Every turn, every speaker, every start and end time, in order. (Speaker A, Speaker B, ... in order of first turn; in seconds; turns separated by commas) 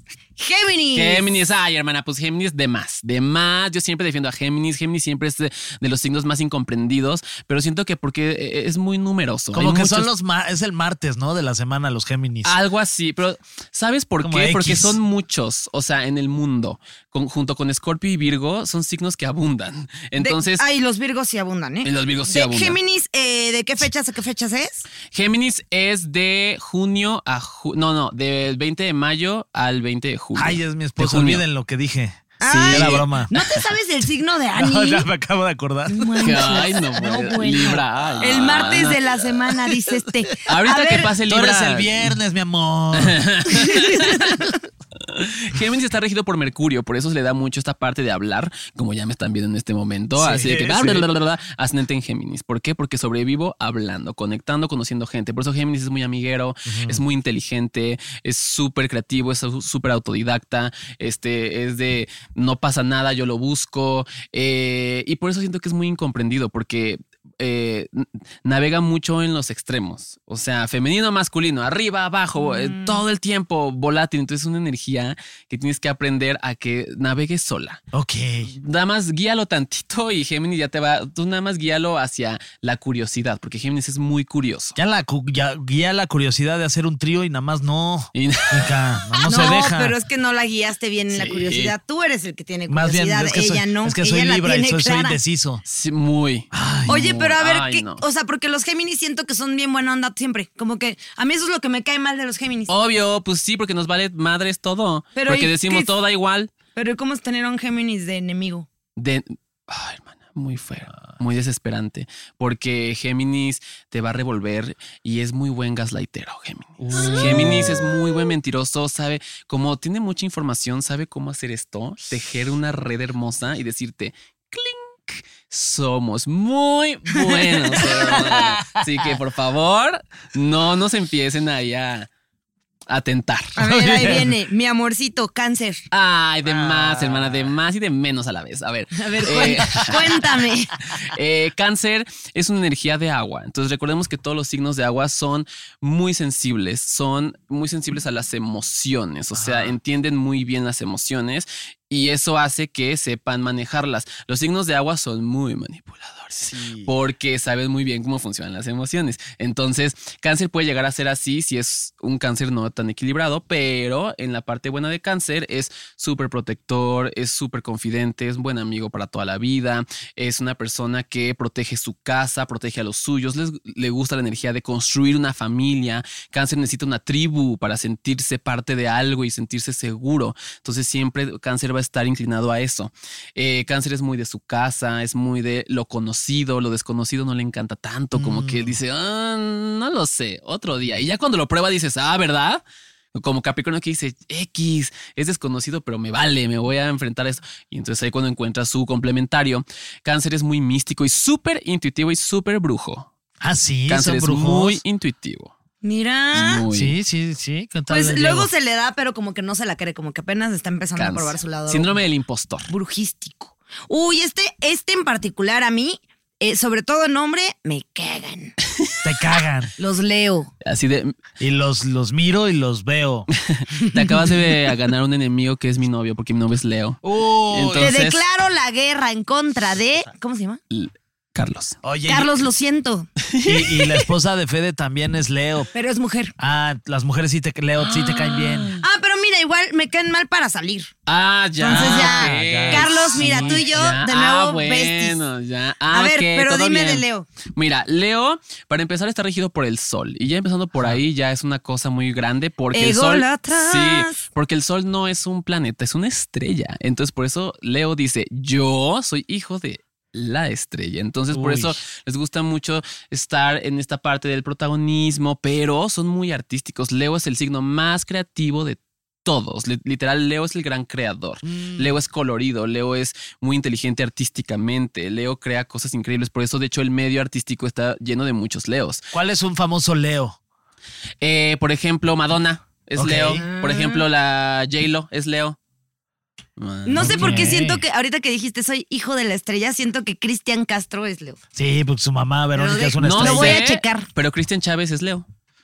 Speaker A: 0.4-1.4, Speaker B: 0.9-10.1, Speaker C: 9.5-12.5, Speaker B: 12.4-20.6, Speaker C: 14.2-15.0, Speaker A: 20.2-24.9, Speaker B: 21.8-22.8, Speaker B: 25.1-31.4, Speaker C: 30.4-33.3, Speaker A: 32.4-35.0, Speaker B: 32.4-33.1, Speaker C: 34.5-36.6, Speaker A: 35.9-41.1, Speaker B: 36.2-39.2, Speaker B: 40.4-42.2, Speaker C: 41.2-43.8, Speaker B: 42.9-77.8, Speaker A: 43.5-44.6, Speaker C: 50.1-51.1, Speaker C: 56.7-57.0, Speaker A: 72.4-73.0, Speaker C: 77.9-78.5, Speaker B: 78.5-84.8, Speaker C: 84.8-89.9, Speaker B: 88.1-88.8, Speaker A: 89.2-95.2, Speaker B: 91.1-91.7, Speaker C: 92.7-95.6, Speaker B: 95.6-98.0, Speaker C: 96.5-97.0, Speaker A: 96.9-102.7, Speaker B: 102.7-106.5, Speaker A: 105.1-105.9, Speaker A: 106.7-108.7, Speaker B: 109.0-132.1, Speaker C: 116.8-117.9, Speaker A: 116.9-117.6, Speaker A: 127.3-127.8, Speaker C: 127.8-129.1, Speaker B: 132.9-134.2, Speaker A: 133.6-135.8, Speaker C: 133.6-134.2, Speaker B: 135.9-140.4, Speaker C: 136.4-137.5, Speaker A: 139.0-140.7, Speaker B: 141.1-192.6, Speaker C: 149.3-149.8, Speaker C: 156.4-156.9, Speaker C: 188.1-188.8, Speaker B: 193.1-203.1, Speaker C: 203.4-204.8, Speaker B: 203.9-205.5, Speaker A: 205.8-206.6, Speaker B: 206.3-206.9, Speaker C: 206.7-208.5, Speaker A: 207.9-212.0, Speaker B: 210.9-212.7, Speaker A: 212.7-218.6, Speaker C: 219.0-219.7, Speaker A: 219.8-220.5, Speaker B: 220.6-221.1, Speaker C: 221.4-223.3, Speaker B: 223.4-227.0, Speaker A: 223.8-224.5, Speaker C: 227.0-227.9, Speaker B: 227.5-228.2, Speaker A: 227.8-230.6, Speaker B: 230.7-231.8, Speaker C: 231.8-232.3, Speaker A: 232.1-233.1, Speaker B: 233.3-233.9, Speaker C: 233.4-235.7, Speaker A: 235.7-236.3, Speaker C: 236.4-238.7, Speaker B: 237.8-238.8, Speaker A: 238.8-240.9, Speaker B: 241.1-279.0, Speaker A: 241.6-245.2, Speaker C: 241.6-243.8, Speaker A: 245.9-247.3, Speaker A: 252.7-254.1, Speaker C: 261.3-261.8, Speaker C: 271.4-272.0, Speaker C: 279.1-280.4, Speaker B: 281.2-285.6, Speaker C: 282.9-283.4, Speaker A: 283.4-284.0, Speaker B: 286.6-287.5, Speaker A: 286.9-291.4, Speaker C: 287.0-287.8, Speaker C: 291.5-293.6, Speaker A: 292.6-294.1, Speaker B: 293.0-295.2